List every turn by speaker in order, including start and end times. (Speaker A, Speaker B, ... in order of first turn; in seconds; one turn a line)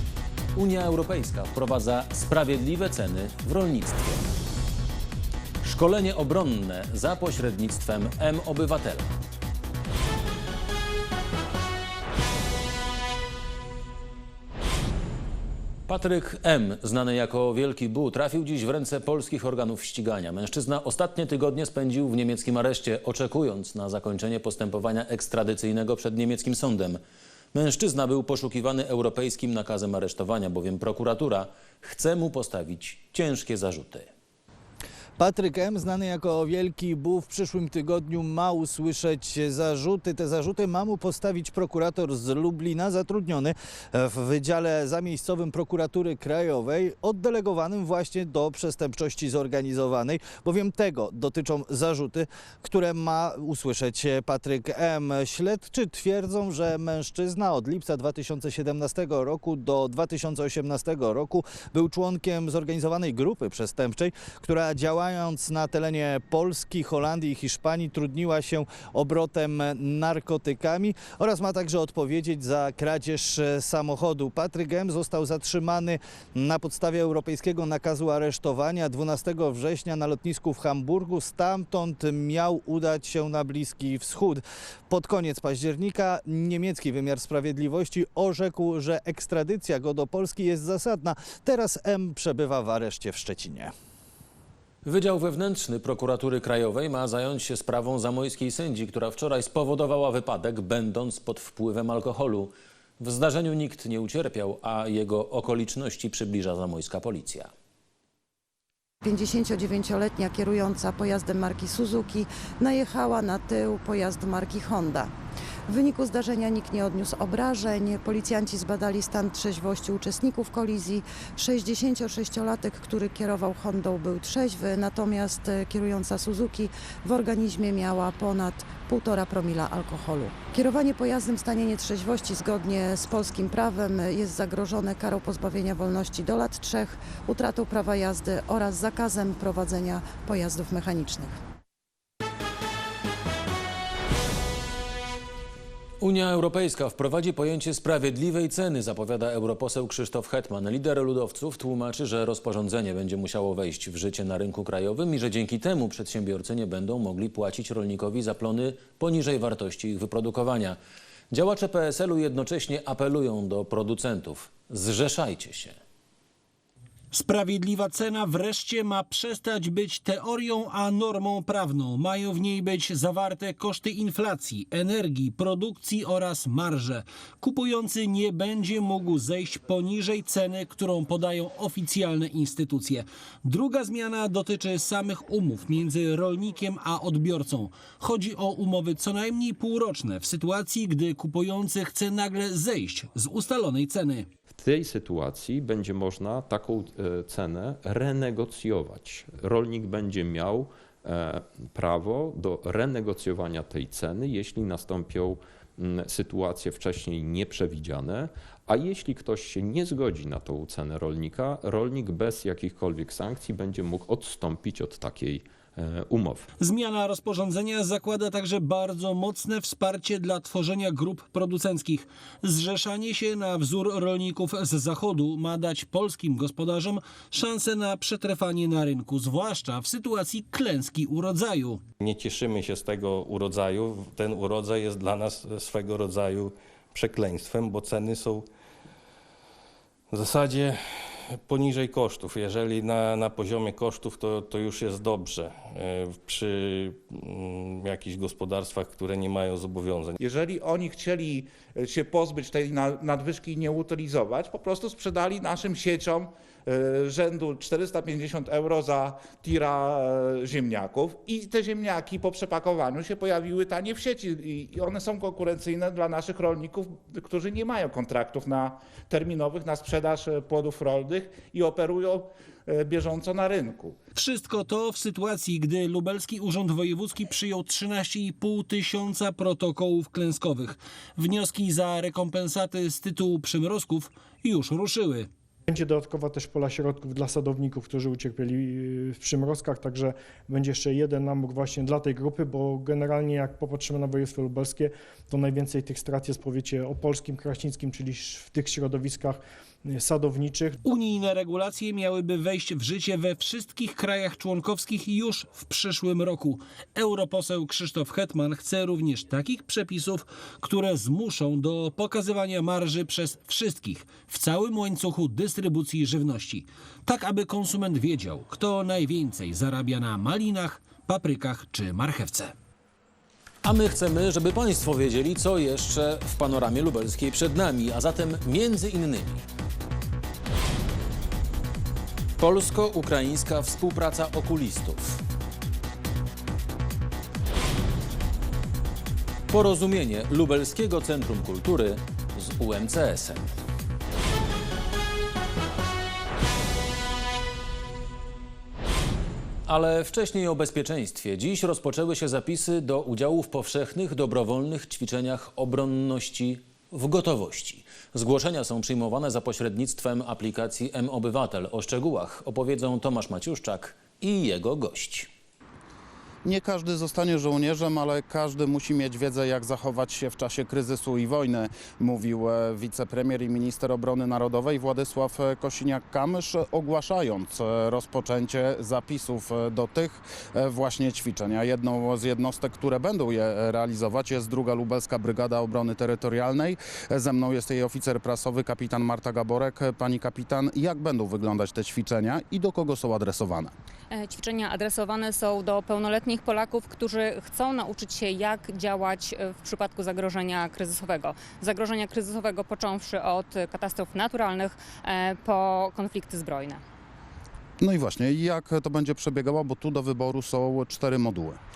Speaker A: 0.5-4.3
Speaker A: 5.6-9.1
Speaker A: 15.9-27.0
Speaker A: 27.5-34.1
Speaker B: 35.2-93.7
Speaker A: 94.8-107.5
Speaker C: 109.0-115.1
Speaker C: 115.7-141.4
Speaker A: 146.0-160.8
Speaker A: 161.3-165.8
Speaker D: 167.1-194.3
Speaker E: 194.5-216.4
Speaker D: 216.6-231.8
Speaker F: 232.0-238.4
Speaker F: 240.1-240.8
Speaker F: 241.3-250.2
Speaker G: 250.2-274.0
Speaker D: 274.1-285.3
Speaker H: 285.7-300.8
Speaker D: 300.8-322.5
Speaker A: 323.6-329.4
Speaker A: 332.4-335.2
Speaker A: 339.5-343.6
Speaker A: 349.7-365.3
Speaker I: 366.4-393.7
Speaker J: 394.1-406.8
Speaker I: 407.8-411.6